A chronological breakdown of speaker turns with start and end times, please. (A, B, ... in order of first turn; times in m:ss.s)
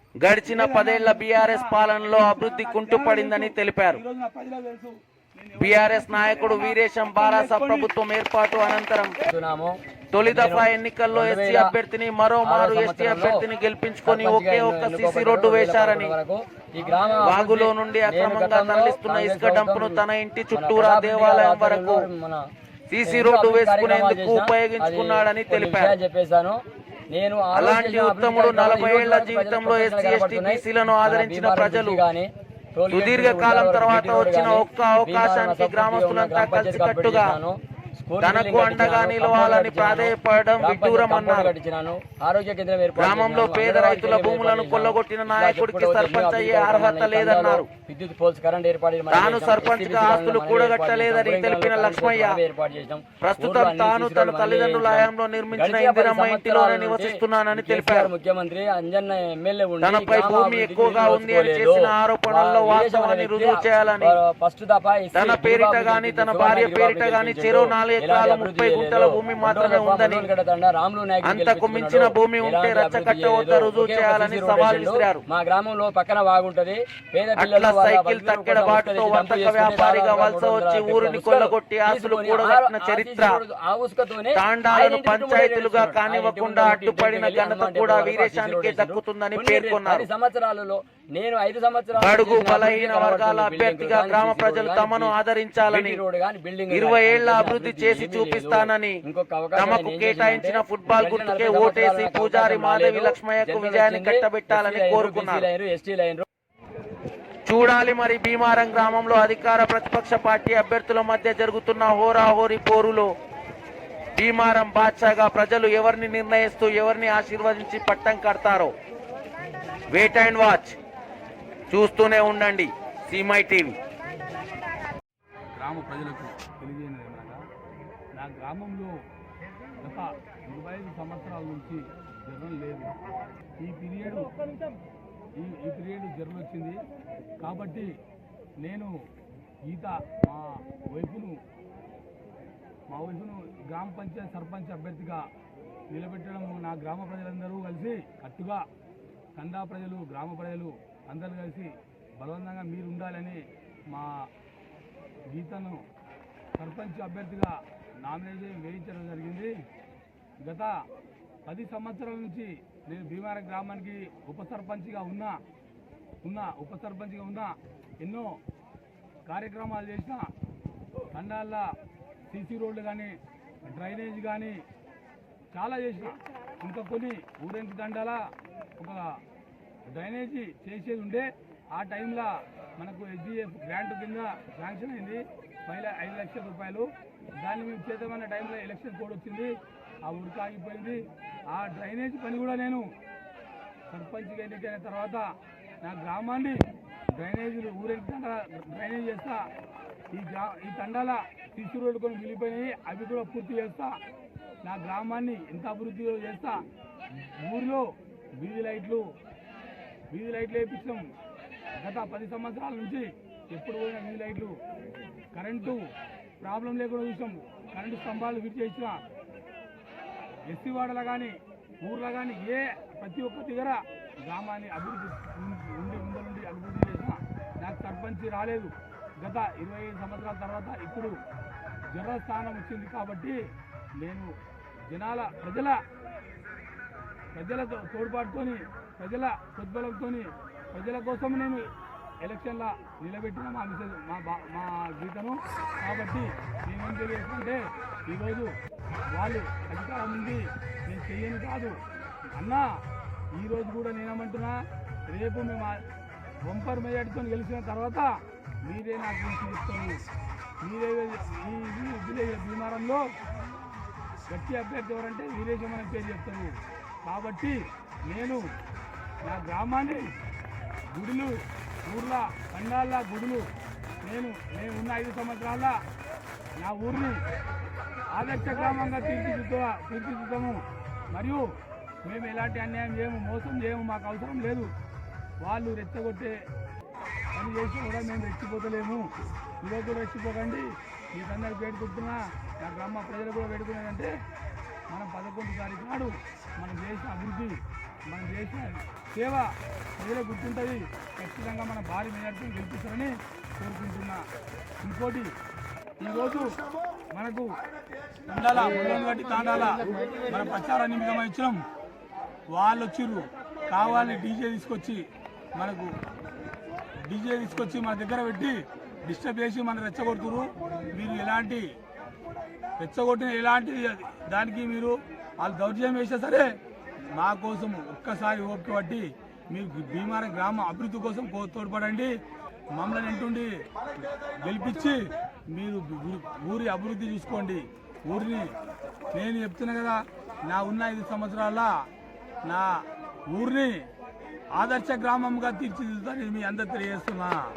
0:00.2-0:04.0 A
0:00.4-0:07.9 B
0:05.6-0:09.2 A
0:08.5-0:09.3 B
0:09.3-0:11.7 C
0:10.1-0:16.2 A
0:12.4-0:13.4 C
0:14.0-0:20.0 C
0:16.8-0:17.2 B
0:17.2-0:22.1 A
0:20.5-0:22.4 C
0:22.9-0:26.0 A
0:23.0-1:35.1 C
0:27.6-0:32.0 A
0:32.9-0:37.4 A
0:38.2-0:41.5 A
0:43.0-0:47.7 A
0:49.1-0:52.4 A
0:53.2-0:58.1 A
0:59.8-1:04.2 A
1:05.1-1:10.3 A
1:11.2-1:15.2 A
1:17.4-1:23.4 A
1:24.4-1:30.1 A
1:32.0-1:36.0 A
1:35.7-1:46.2 C
1:36.7-1:39.0 A
1:39.6-1:45.5 A
1:47.4-1:53.1 A
1:54.2-1:58.7 A
1:59.9-2:00.8 A
2:01.7-2:03.8 A
2:05.6-2:07.4 B
2:08.2-2:08.9 B
2:09.8-2:12.9 B
2:13.6-2:14.3 B
2:15.4-2:16.8 B
2:17.4-2:17.9 B
2:18.6-2:18.9 B
2:19.7-2:21.4 B
2:22.9-2:25.2 B
2:25.9-2:28.6 B
2:29.4-2:34.1 B
2:35.3-2:35.8 B
2:36.6-2:39.5 B
2:40.4-2:40.8 B
2:41.5-2:45.4 B
2:46.2-2:48.4 B
2:49.3-2:50.3 B
2:51.1-2:51.7 B
2:52.3-2:53.2 B
2:53.7-2:54.6 B
2:55.5-2:58.2 B
2:58.8-2:59.1 B
2:59.9-3:06.9 B
3:07.4-3:09.5 B
3:10.1-3:12.9 B
3:13.9-3:15.3 B
3:15.8-3:16.6 B
3:17.2-3:19.4 B
3:20.1-3:24.0 B
3:24.6-3:26.6 B
3:27.4-3:27.8 B
3:28.4-3:29.0 B
3:30.1-3:31.1 B
3:31.8-3:34.6 B
3:35.3-3:35.9 B
3:36.4-3:39.0 B
3:40.5-3:51.1 B
3:51.9-3:53.4 B
3:54.0-3:54.3 B
3:54.9-3:55.8 B
3:57.4-4:01.7 B
4:02.2-4:08.5 B
4:09.1-4:11.8 B
4:12.4-4:12.7 B
4:13.4-4:15.8 B
4:16.4-4:18.1 B
4:18.7-4:20.0 B
4:20.6-4:23.0 B
4:24.3-4:26.5 B
4:27.0-4:27.6 B
4:28.1-4:28.4 B
4:29.2-4:30.1 B
4:30.9-4:33.4 B
4:34.0-4:35.8 B
4:36.6-4:37.2 B
4:38.1-4:41.4 B
4:42.0-4:44.7 B
4:45.4-4:46.3 B
4:47.4-4:49.1 B
4:49.6-4:54.1 B
4:54.9-4:57.6 B
4:58.1-5:04.2 B
5:04.8-5:05.3 B
5:06.0-5:06.6 B
5:07.1-5:07.5 B
5:08.3-5:11.6 B
5:12.5-5:15.0 B
5:15.6-5:15.9 B
5:17.1-5:21.7 B
5:22.8-5:26.5 B
5:27.2-5:32.1 B
5:32.8-5:33.5 B
5:34.4-5:35.0 B
5:35.5-5:38.5 B
5:39.1-5:41.7 B
5:43.3-5:43.8 B
5:44.6-5:47.4 B